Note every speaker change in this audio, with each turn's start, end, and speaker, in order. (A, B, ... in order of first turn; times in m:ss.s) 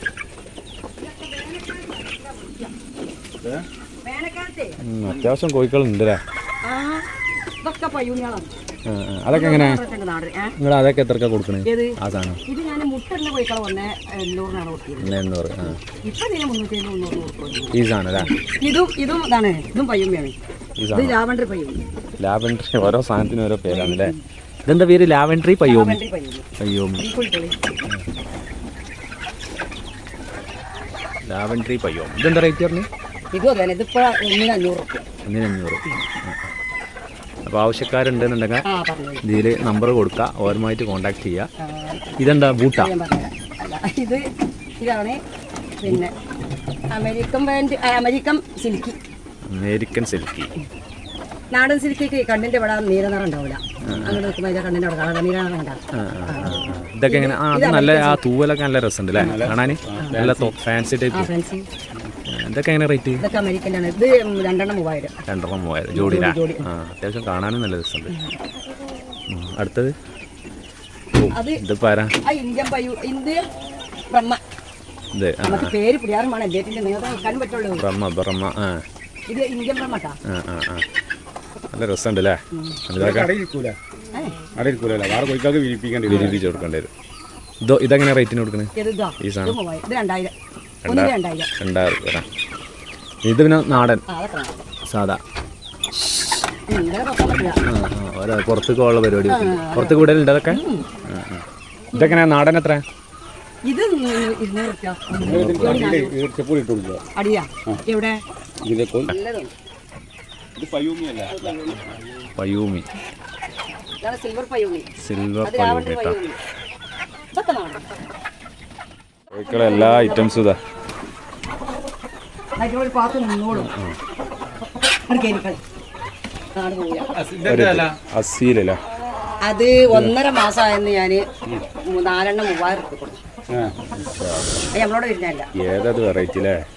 0:01.1-0:02.5 A
0:04.0-0:04.8 A
0:04.8-0:06.2 B
0:07.7-0:08.4 A
0:08.9-0:09.8 B
0:09.4-0:10.5 A
0:10.6-0:12.4 B
0:12.5-0:15.1 A
0:15.0-0:15.8 B
0:15.9-0:17.7 A
0:17.7-0:18.3 B
0:18.5-0:20.4 A
0:20.8-0:21.2 B
0:20.9-0:21.8 A
0:22.2-0:24.1 B
0:24.6-0:26.0 B
0:25.7-0:26.4 A
0:26.6-0:27.0 B
0:27.0-0:27.5 A
0:31.3-0:32.9 B
0:33.3-0:35.0 A
0:35.2-0:36.5 B
0:37.4-0:38.6 B
0:38.6-0:39.2 A
0:39.2-0:41.5 B
0:41.6-0:42.0 A
0:42.2-0:42.9 B
0:42.8-0:44.3 A
0:44.8-0:45.2 A
0:45.8-0:46.1 A
0:46.9-0:49.0 A
0:49.5-0:50.5 B
0:51.5-0:56.4 A
0:53.8-0:54.3 B
0:55.9-1:01.3 B
0:57.1-0:58.1 A
0:59.2-1:00.5 C
0:59.2-0:59.5 A
1:01.2-1:01.6 A
1:02.2-1:03.3 B
1:03.2-1:05.2 A
1:05.2-1:08.2 B
1:06.0-1:06.6 A
1:09.3-1:09.9 B
1:11.1-1:12.1 B
1:11.3-1:11.6 A
1:12.2-1:13.4 A
1:15.1-1:15.7 B
1:15.4-1:16.7 A
1:17.3-1:17.8 A
1:17.8-1:18.8 B
1:19.3-1:20.2 A
1:20.2-1:20.8 B
1:21.7-1:23.3 B
1:23.0-1:23.8 C
1:24.5-1:26.5 C
1:26.1-1:26.9 B
1:26.1-1:26.4 A
1:27.6-1:29.6 B
1:28.8-1:30.3 A
1:30.8-1:32.2 B
1:30.9-1:31.5 A
1:33.2-1:34.0 B
1:34.1-1:34.6 A
1:34.8-1:35.2 B
1:36.8-1:37.6 A
1:37.6-1:42.8 B
1:39.3-1:40.1 A
1:43.7-1:46.2 A
1:45.2-1:45.9 B
1:45.2-1:47.0 C
1:47.2-1:48.2 A
1:48.6-1:49.1 C
1:49.2-1:49.5 A
1:50.6-1:52.0 C
1:52.3-1:52.8 B
1:54.0-1:54.9 A
1:55.0-1:56.2 B
1:55.4-1:56.3 A
1:57.4-1:57.8 A
1:59.3-2:00.6 B
1:59.5-2:00.3 A
2:02.7-2:03.6 A
2:03.5-2:04.0 B
2:05.3-2:05.6 A
2:06.6-2:07.1 A
2:07.1-2:07.9 C
2:07.4-2:08.8 B
2:09.5-2:11.2 A
2:11.9-2:13.0 A
2:13.5-2:13.8 C
2:13.9-2:14.6 B
2:14.8-2:15.5 A
2:15.5-2:16.6 B